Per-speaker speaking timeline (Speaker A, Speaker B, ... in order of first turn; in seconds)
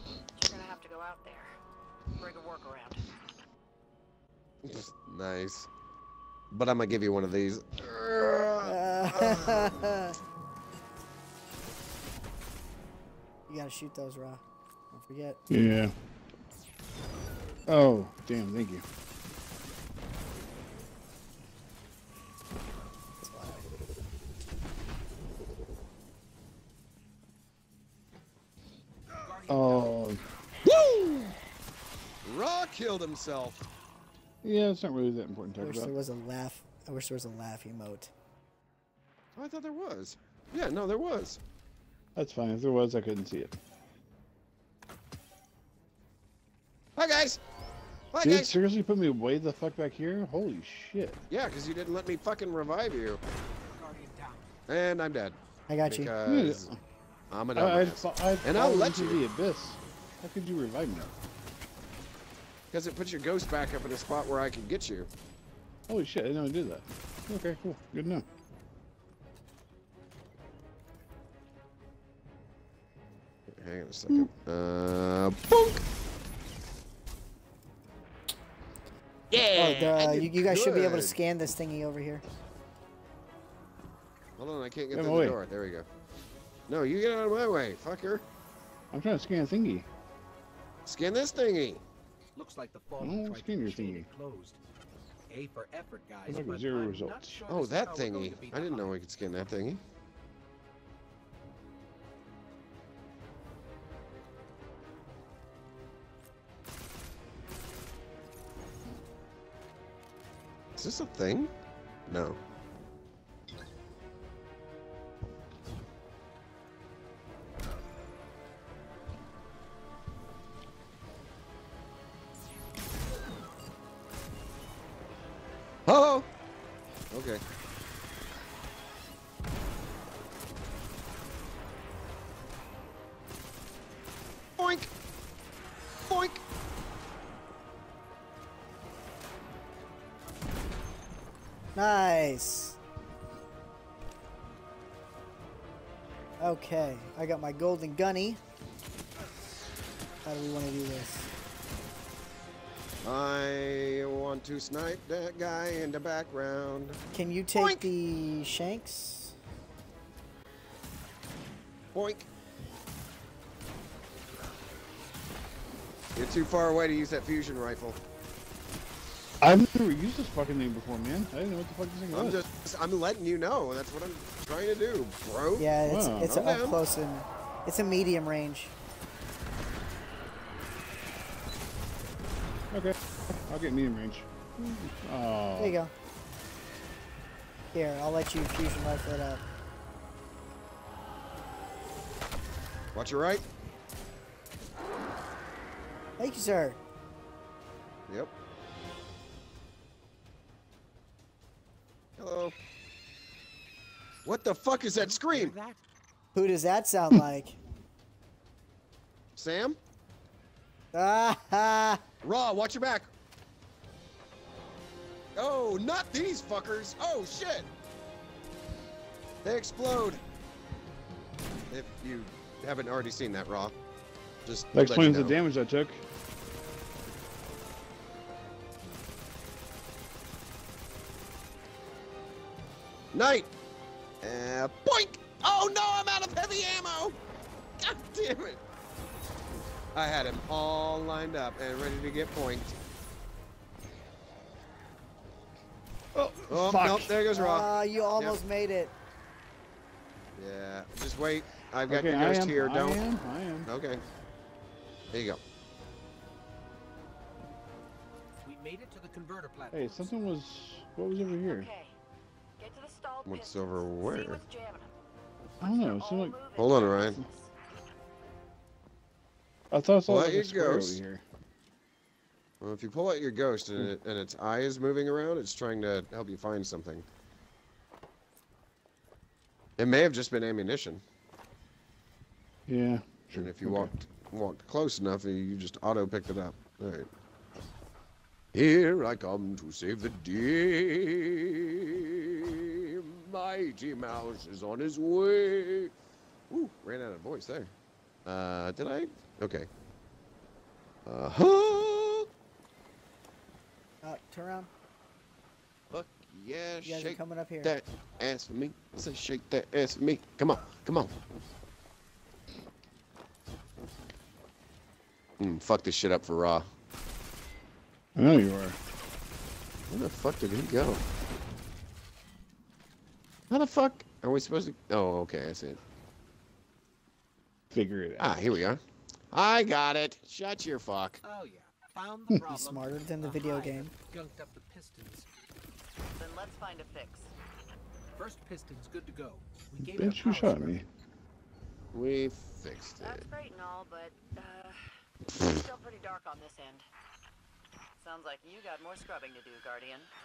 Speaker A: 0.3-1.5, 2.2-3.0, 261.4-261.9, 262.6-264.9, 265.6-267.5, 336.2-337.3, 343.0-346.9, 348.0-350.1
Speaker B: 4.6-5.7, 6.5-9.8, 30.6-31.3, 32.2-33.7, 39.4-41.4, 47.0-47.4, 48.1-48.5, 51.3-53.2, 54.7-56.7, 57.3-59.2, 62.7-65.1, 73.5-75.8, 79.3-81.2, 84.4-85.9, 86.7-88.2, 90.8-91.8, 97.5-99.8, 110.8-111.5, 112.1-112.4, 125.9-126.3, 127.1-127.4, 134.6-134.9, 136.1-136.4, 153.0-157.0, 157.5-157.9, 161.9-162.3, 166.1-168.0, 172.1-176.8, 192.9-193.4, 202.2-202.5, 204.2-205.6, 209.3-209.8, 212.2-213.1, 215.3-217.7, 219.4-220.2, 221.7-223.7, 224.4-225.3, 233.1-233.5, 234.2-237.2, 237.8-238.6, 239.9-242.7, 246.5-248.4, 250.3-253.0, 253.6-254.0, 255.1-255.4, 263.2-264.4, 266.6-267.2, 270.1-271.0, 272.6-277.1, 279.8-281.0, 283.3-287.1, 288.5-295.9, 296.5-297.7, 298.2-299.7, 301.1-302.3, 305.9-311.1, 315.4-316.7, 319.9-321.0, 323.5-325.8, 328.2-328.8, 329.3-331.2, 341.9-343.2
Speaker C: 8.6-10.2, 13.5-15.4, 23.2-23.6, 35.6-38.1, 55.7-56.1, 79.5-82.2, 141.7-142.8, 146.4-148.4, 150.2-151.3, 157.1-159.3, 175.6-178.7, 185.6-185.9, 187.7-189.4, 196.2-196.8, 206.3-207.6, 210.9-212.0, 247.3-248.9, 304.0-304.7, 306.8-307.7, 332.5-333.9
Speaker D: 15.5-15.9, 17.7-18.8, 29.5-30.2, 34.4-35.9, 42.1-43.6, 48.2-51.2, 56.2-56.8, 57.5-61.1, 65.9-68.2, 84.9-85.4, 88.9-89.9, 93.0-94.1, 96.3-97.4, 169.4-172.4, 175.9-176.4, 182.7-185.8, 224.7-226.0, 246.1-247.2, 251.9-253.7, 259.7-261.7, 265.6-266.4, 269.7-271.2, 282.7-283.9, 318.1-318.8, 327.7-328.4, 339.8-340.9
Speaker E: 29.1-30.0, 53.6-54.5, 92.3-94.6, 95.3-99.0, 204.9-205.8, 258.4-260.1, 331.2-335.3, 338.1-340.8